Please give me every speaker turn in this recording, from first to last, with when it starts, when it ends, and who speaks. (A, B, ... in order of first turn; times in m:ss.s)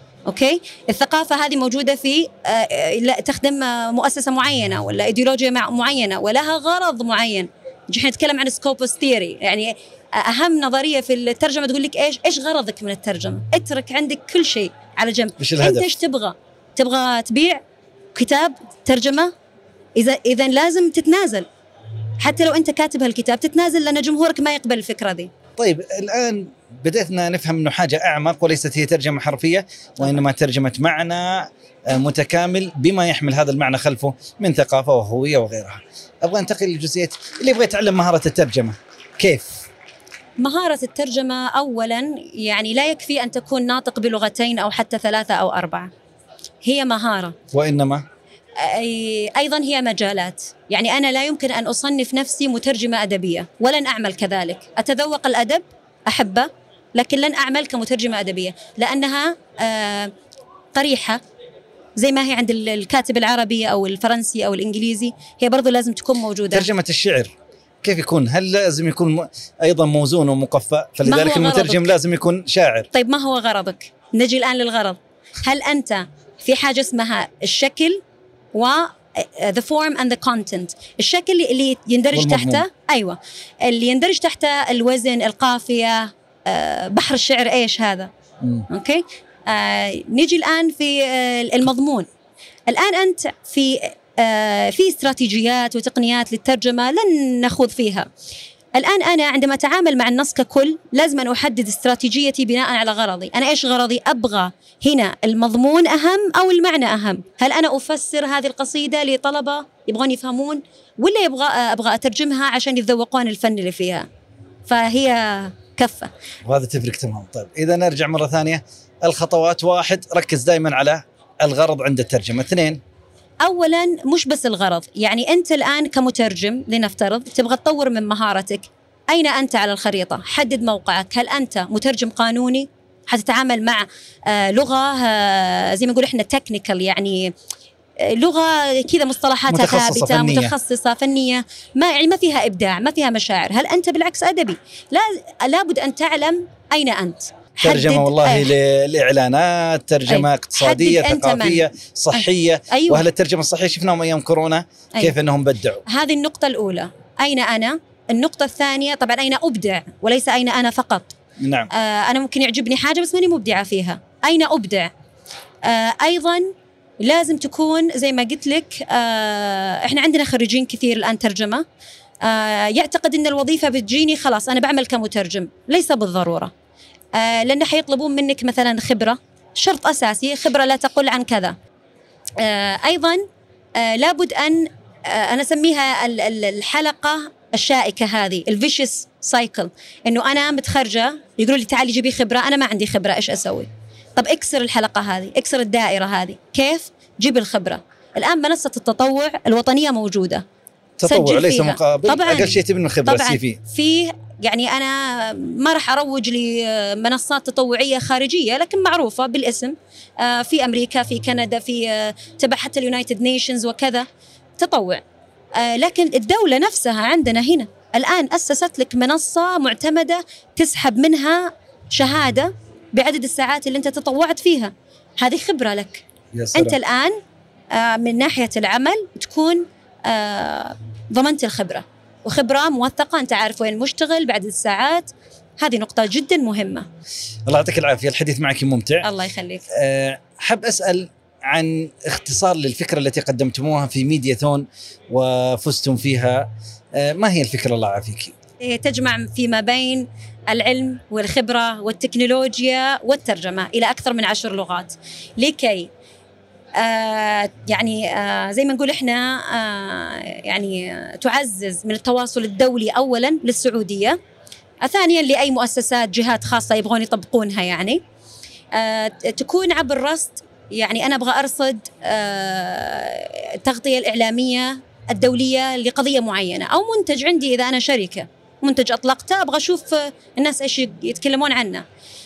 0:00.3-0:17.6 A
0:15.4-0:15.9 B
0:18.1-0:19.3 A
0:20.0-0:21.5 A
0:22.2-0:25.3 A
0:25.6-0:39.6 B
0:40.4-0:45.9 A
0:46.6-0:47.4 A
0:47.5-0:48.0 B
0:48.6-1:00.1 A
1:00.7-1:01.2 A
1:02.0-1:06.7 A
1:06.5-1:12.9 B
1:11.0-1:11.9 A
1:12.9-1:18.0 A
1:18.5-1:28.1 A
1:22.1-1:22.7 B
1:28.7-1:32.1 A
1:32.7-1:38.1 A
1:38.8-1:54.1 A
1:54.7-1:56.1 A
1:56.4-2:02.8 B
2:03.4-2:17.3 A
2:18.0-2:28.5 A
2:19.5-2:20.5 B
2:27.6-2:35.8 B
2:30.1-2:33.0 A
2:35.9-2:41.2 A
2:41.4-2:41.7 B
2:41.7-2:44.9 A
2:45.6-2:51.6 A
2:52.2-2:56.5 A
2:57.2-3:01.6 A
3:02.4-3:03.2 A
3:03.8-3:20.4 A
3:21.0-3:23.6 B
3:21.1-3:34.1 A
3:34.6-3:35.0 A
3:35.6-3:47.2 A
3:46.3-3:46.8 B
3:47.7-3:56.9 A
3:57.5-3:59.1 B
3:59.0-3:59.6 A
3:59.7-4:08.3 B
4:08.6-4:15.9 A
4:16.8-4:24.2 A
4:24.8-4:28.0 A
4:28.7-4:41.8 A